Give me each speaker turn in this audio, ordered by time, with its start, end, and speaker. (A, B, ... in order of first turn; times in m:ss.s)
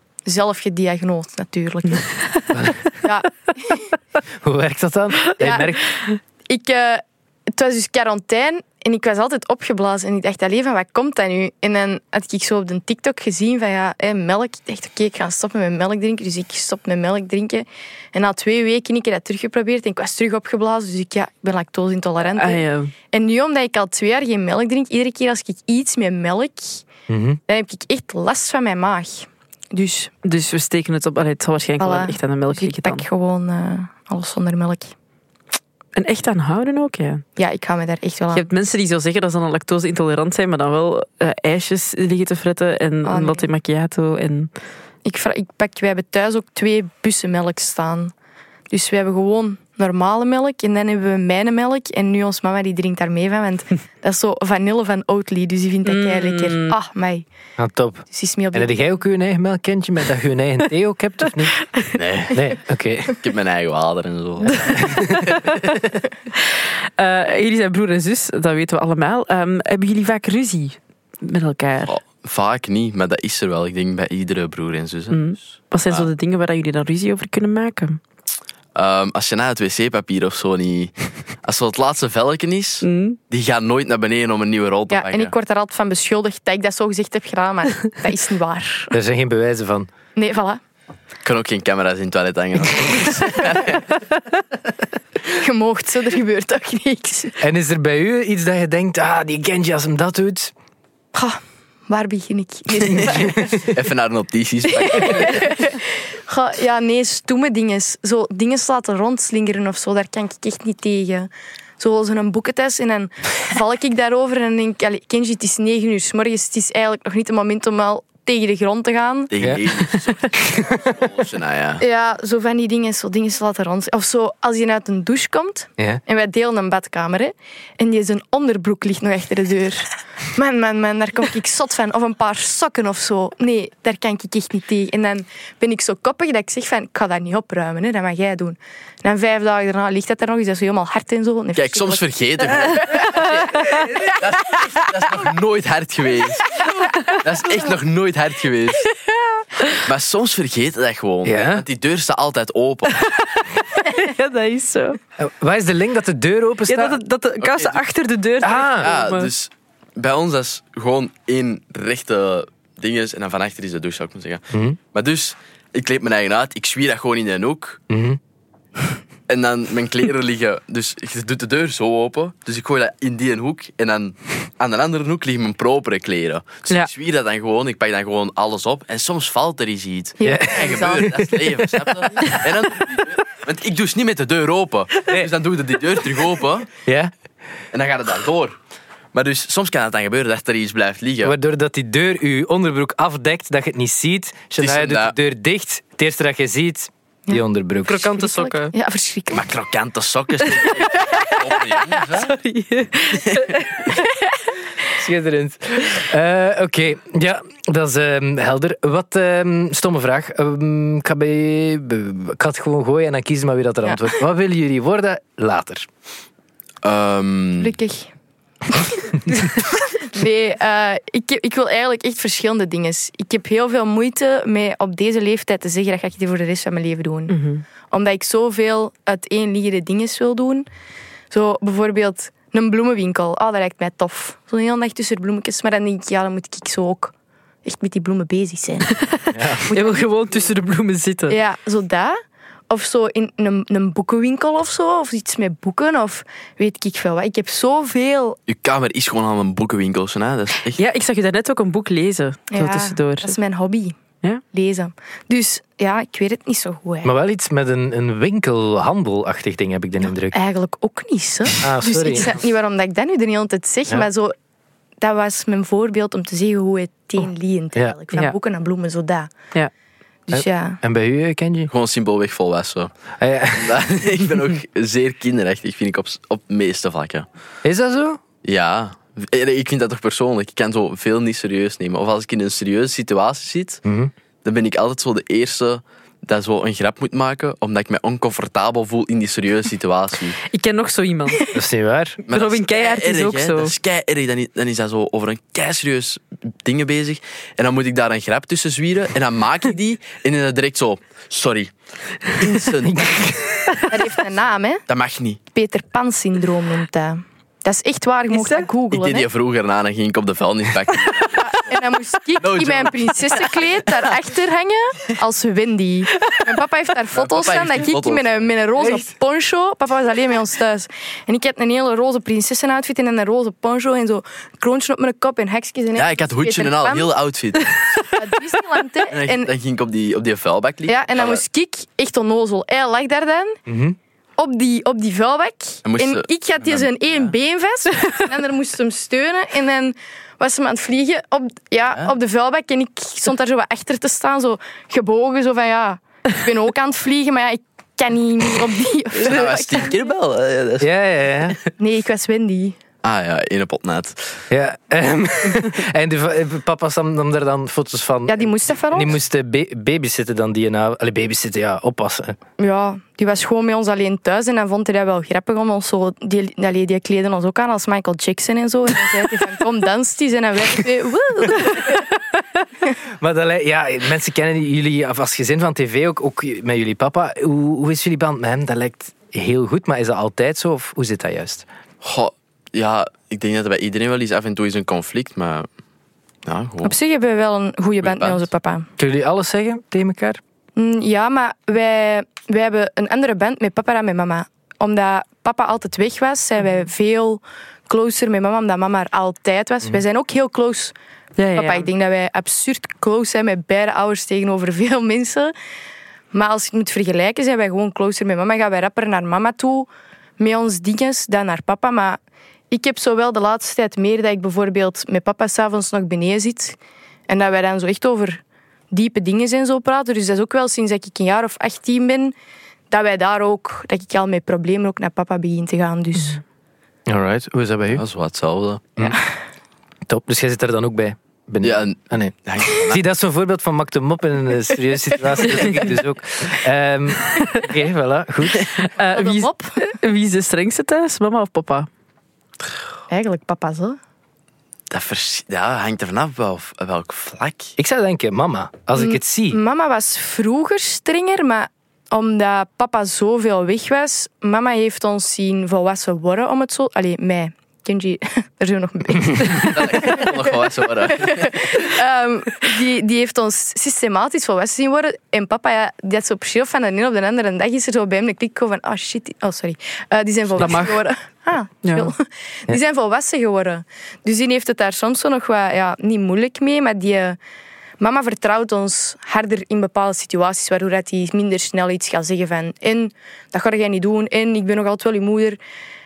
0:00.2-0:02.1 A
0:02.5-0:02.8 B
0:03.0-0:03.9 A
0:04.4-0:05.9 B
0:05.4-0:05.7 A
0:06.5-0:26.9 A
0:22.4-0:22.9 C
0:27.1-0:27.4 B
0:27.5-0:30.1 A
0:30.2-0:33.0 C
0:31.8-0:34.9 A
0:36.0-0:37.2 C
0:37.4-0:38.4 A
0:38.3-0:44.5 C
0:43.0-0:43.5 A
0:45.0-0:48.1 A
0:48.7-0:57.3 A
0:55.8-0:56.7 C
0:57.6-1:01.7 B
0:58.1-0:58.8 A
1:01.9-1:02.5 D
1:02.3-1:03.2 B
1:03.2-1:05.7 D
1:04.6-1:05.3 B
1:06.4-1:12.0 C
1:11.9-1:16.1 D
1:15.1-1:18.0 C
1:18.8-1:20.9 D
1:21.4-1:25.3 D
1:22.8-1:23.2 C
1:24.9-1:28.9 A
1:28.9-1:29.9 B
1:30.2-1:30.6 A
1:31.2-1:34.0 D
1:35.3-1:37.4 A
1:37.4-1:40.5 B
1:41.1-1:43.6 A
1:43.0-1:45.6 D
1:43.0-1:43.6 B
1:44.8-1:59.3 A
1:59.3-2:01.8 D
1:59.4-1:59.6 B
2:00.5-2:00.8 B
2:01.8-2:23.8 A
2:21.6-2:28.9 D
2:29.8-2:33.1 D
2:31.2-2:31.7 B
2:33.6-2:35.0 C
2:35.2-2:37.0 B
2:36.7-2:39.3 C
2:37.4-2:37.8 D
2:38.4-2:39.0 B
2:38.8-2:47.8 D
2:44.5-2:44.8 B
2:47.9-2:48.2 B
2:49.3-3:06.7 D
3:00.2-3:01.2 A
3:00.2-3:02.2 B
3:06.8-3:07.1 B
3:07.7-3:08.6 D
3:09.1-3:11.4 D
3:11.2-3:18.2 B
3:14.6-3:15.2 D
3:17.8-3:18.7 C
3:18.2-3:19.5 A
3:19.3-3:22.4 D
3:22.0-3:24.0 C
3:24.9-3:35.9 B
3:36.8-3:37.7 D
3:37.6-3:38.1 A
3:38.7-3:47.4 A
3:47.3-3:47.6 C
3:47.9-3:50.7 A
3:51.3-3:58.9 A
3:58.9-4:01.4 C
3:59.3-3:59.7 B
3:59.7-4:00.1 A
4:01.3-4:02.2 A
4:02.7-4:08.4 A
4:08.5-4:10.8 D
4:10.8-4:13.4 C
4:12.5-4:14.0 A
4:14.5-4:17.1 A
4:17.0-4:20.4 B
4:20.3-4:24.3 A
4:21.6-4:22.4 B
4:25.0-4:29.3 A
4:30.3-4:30.8 A
4:30.3-4:31.7 B
4:31.7-4:32.9 D
4:33.2-4:33.8 B
4:33.5-4:37.3 D
4:37.6-4:38.2 B
4:38.4-4:43.8 D
4:43.8-4:44.1 B
4:44.4-4:50.4 D
4:50.5-4:51.6 C
4:51.5-4:52.2 B
4:52.3-5:01.7 D
4:52.3-4:53.7 C
5:02.2-5:03.1 D
5:02.8-5:03.8 B
5:03.9-5:04.8 A
5:04.9-5:05.4 D
5:05.5-5:09.3 A
5:08.3-5:08.7 C
5:08.9-5:11.8 D
5:11.4-5:27.1 A
5:12.4-5:13.6 D
5:17.1-5:18.5 D
5:26.0-5:28.1 D
5:28.0-5:29.5 A
5:29.1-5:31.4 D
5:30.9-5:33.6 A
5:33.7-5:34.0 B
5:34.4-5:49.9 A
5:35.8-5:37.3 D
5:49.2-5:51.6 D
5:50.8-5:51.6 B
5:51.8-5:52.8 A
5:53.0-5:54.4 D
5:54.5-6:02.4 B
5:58.3-5:59.2 A
6:02.6-6:12.0 A
6:13.2-6:21.7 B
6:22.0-6:25.7 D
6:26.5-6:27.0 D
6:26.8-6:28.9 A
6:28.0-6:28.4 D
6:29.0-6:30.4 B
6:30.8-6:41.0 A
6:41.4-6:41.9 C
6:41.6-6:45.5 A
6:46.3-6:52.2 A
6:52.7-6:56.8 A
6:57.3-7:02.3 A
7:02.9-7:06.4 A
7:07.1-7:08.0 B
7:07.9-7:09.0 D
7:10.1-7:18.7 B
7:11.6-7:13.0 D
7:17.4-7:17.6 C
7:18.8-7:21.9 C
7:19.0-7:19.9 A
7:23.1-7:24.0 A
7:24.9-7:27.8 D
7:27.8-7:29.6 B
7:29.0-7:40.5 A
7:39.5-7:41.9 D
7:41.1-7:57.4 A
7:50.6-7:51.0 C
7:51.8-7:52.1 C
7:58.0-8:05.6 A